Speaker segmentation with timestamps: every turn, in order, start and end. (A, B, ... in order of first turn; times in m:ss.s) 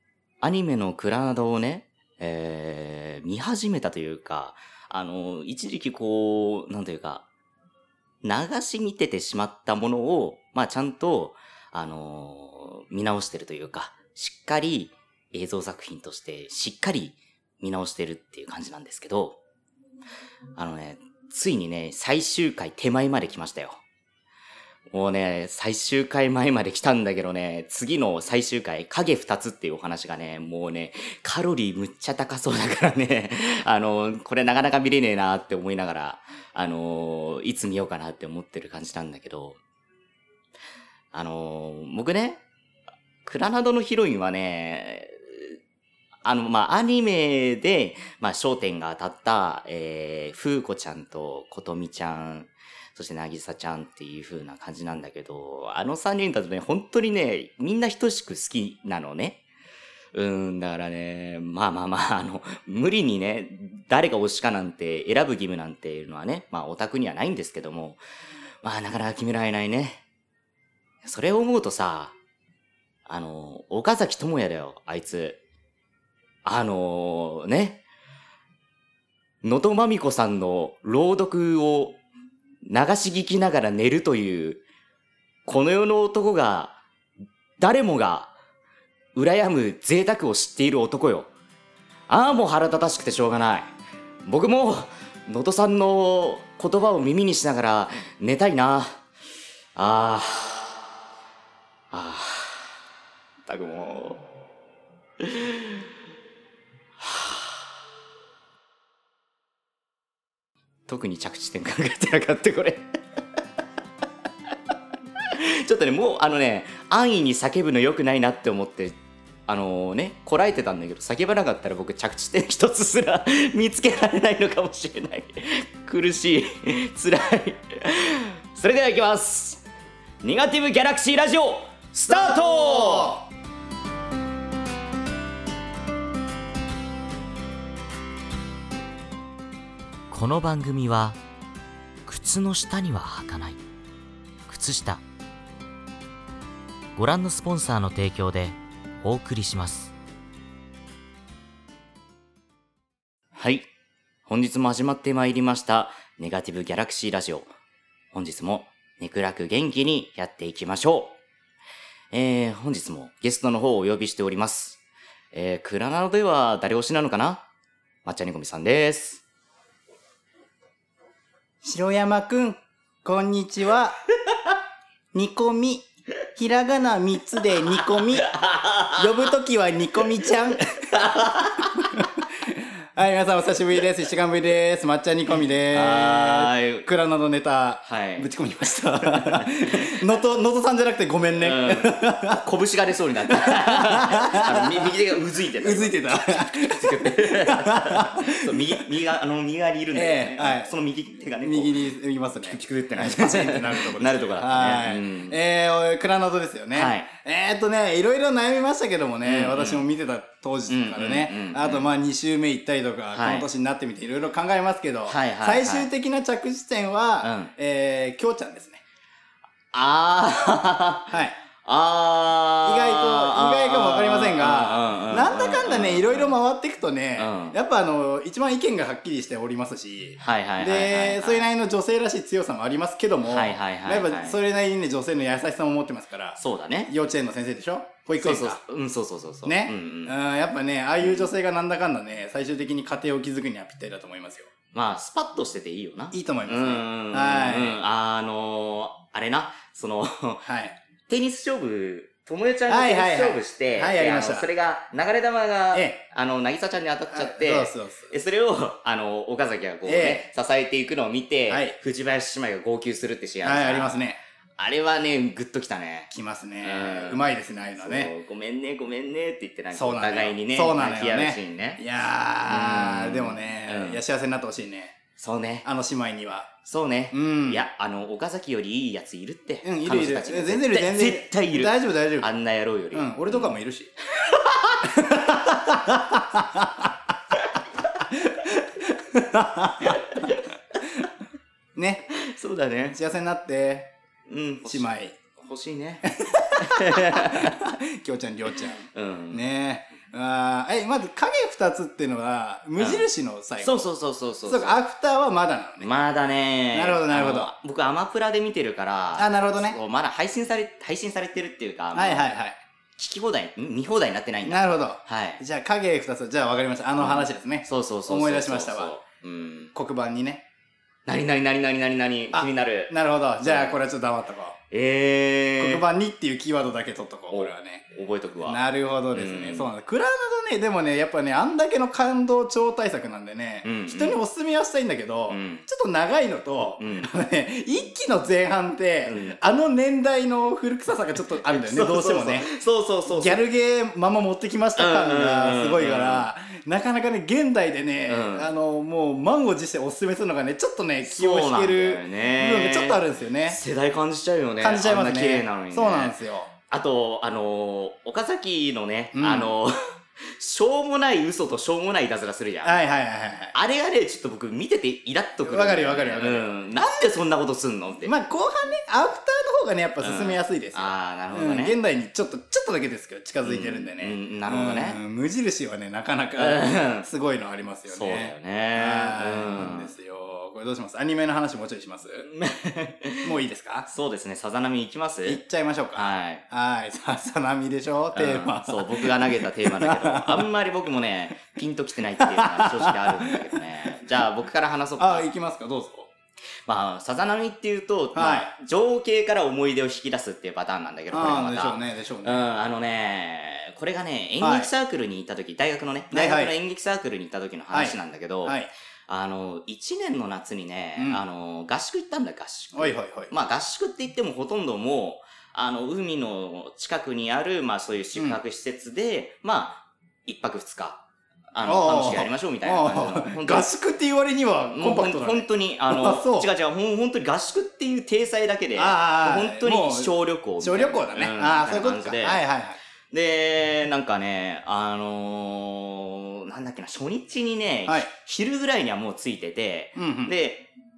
0:00.4-0:07.2 A
0:08.2-0:19.4 A
0:20.6-0:23.8 A
0:24.9-0:39.6 A
0:41.1-0:42.4 A
0:43.2-0:45.6 A
0:46.2-0:59.4 A
1:00.1-1:08.0 A
1:08.6-1:10.0 A
1:11.0-1:12.1 A
1:13.0-1:15.4 A
1:16.4-1:17.8 A
1:19.4-1:22.0 A
1:22.6-1:24.6 A
1:25.4-1:26.8 A
1:27.6-1:28.3 A
1:29.1-1:31.3 A
1:32.1-1:33.7 A
1:34.2-1:39.0 A
1:39.8-1:40.7 A
1:41.9-1:42.7 A
1:43.4-1:44.2 A
1:45.2-1:45.8 A
1:47.0-1:47.6 A
1:50.9-1:52.9 A
1:55.2-1:59.0 A
1:59.5-2:09.6 A
2:10.2-2:13.2 A
2:12.1-2:13.2 B
2:20.1-2:21.2 A
2:22.1-2:23.6 A
2:24.5-2:25.0 A
2:27.0-2:29.9 A
2:33.3-2:33.7 A
2:34.3-2:37.5 A
2:38.1-2:41.2 A
2:42.1-2:44.8 A
2:45.3-2:47.4 A
2:48.0-2:49.2 A
2:51.6-2:54.0 B
2:55.1-2:58.3 B
2:58.2-2:59.0 A
2:58.9-3:01.1 B
3:00.9-3:02.1 A
3:01.7-3:12.4 B
3:05.7-3:06.9 A
3:07.8-3:08.3 A
3:09.0-3:10.0 A
3:11.4-3:25.4 A
3:13.4-3:15.0 B
3:15.6-3:18.8 B
3:19.9-3:20.7 B
3:21.4-3:38.8 B
3:26.7-3:27.1 A
3:29.2-3:29.8 A
3:30.7-3:31.9 A
3:33.1-3:33.4 A
3:35.1-3:35.9 A
3:37.2-3:37.5 A
3:39.7-3:46.3 A
3:41.1-3:41.3 B
3:42.6-3:58.6 B
3:47.2-3:47.6 A
3:50.2-3:51.5 A
3:53.2-3:54.4 A
3:56.4-3:56.9 A
3:58.2-4:00.2 A
3:59.4-4:04.5 B
4:01.0-4:01.3 A
4:04.7-4:10.5 A
4:06.1-4:07.8 B
4:10.4-4:10.8 B
4:11.1-4:24.0 A
4:12.7-4:14.5 B
4:15.7-4:16.0 B
4:17.1-4:18.1 B
4:19.9-4:20.3 B
4:21.5-4:21.8 B
4:23.4-4:24.2 B
4:24.6-4:26.1 A
4:26.1-4:28.1 B
4:26.6-4:27.2 A
4:27.8-4:31.8 A
4:29.7-4:35.0 B
4:32.5-4:34.0 A
4:35.2-4:35.7 A
4:35.6-4:36.5 B
4:36.6-4:43.6 A
4:37.1-4:37.6 B
4:39.6-4:42.3 B
4:42.9-4:43.9 B
4:44.2-4:45.1 A
4:44.8-4:47.4 B
4:48.1-4:50.2 B
4:49.8-4:50.4 A
4:51.8-4:52.1 B
4:52.1-4:53.0 A
4:52.9-4:53.9 B
4:54.3-4:57.6 A
4:54.7-4:55.2 B
4:56.1-5:03.9 B
4:58.9-4:59.4 A
5:02.8-5:03.1 A
5:03.6-5:04.8 A
5:04.5-5:05.9 B
5:05.8-5:12.3 A
5:06.7-5:07.5 B
5:09.2-5:09.8 B
5:11.9-5:12.6 B
5:13.0-5:15.4 A
5:14.5-5:18.9 B
5:17.0-5:19.7 A
5:19.7-5:20.4 B
5:21.1-5:22.9 A
5:22.3-5:24.6 B
5:23.4-5:23.8 A
5:24.7-5:25.8 A
5:25.6-5:27.8 B
5:27.3-5:28.6 A
5:28.4-5:42.5 B
5:29.1-5:29.7 A
5:33.6-5:34.2 A
5:35.3-5:35.6 A
5:36.8-5:37.1 A
5:39.1-5:39.4 A
5:41.4-5:43.4 A
5:43.1-5:53.6 B
5:44.8-5:46.3 A
5:48.1-5:48.5 A
5:51.0-5:56.2 A
5:54.6-5:56.5 B
5:56.7-6:02.8 A
5:59.2-5:59.5 B
6:02.6-6:03.6 B
6:03.5-6:08.1 A
6:05.4-6:06.5 B
6:08.0-6:22.3 B
6:10.0-6:11.8 A
6:13.4-6:15.0 A
6:16.4-6:17.1 A
6:17.9-6:19.9 A
6:22.3-6:23.3 A
6:23.2-6:23.9 B
6:23.9-6:25.4 A
6:25.2-6:30.5 B
6:26.0-6:26.4 A
6:28.1-6:35.3 A
6:32.2-6:34.2 B
6:35.0-6:36.1 B
6:36.7-6:48.6 A
6:38.2-6:38.5 B
6:41.1-6:42.5 B
6:44.4-6:44.7 B
6:46.1-6:46.5 B
6:47.7-6:48.7 B
6:49.1-7:01.0 A
6:52.8-6:53.3 B
6:58.2-6:58.4 B
7:01.5-7:03.7 A
7:01.6-7:06.5 B
7:04.8-7:12.4 A
7:08.8-7:12.8 B
7:13.1-7:20.7 A
7:20.0-7:20.4 B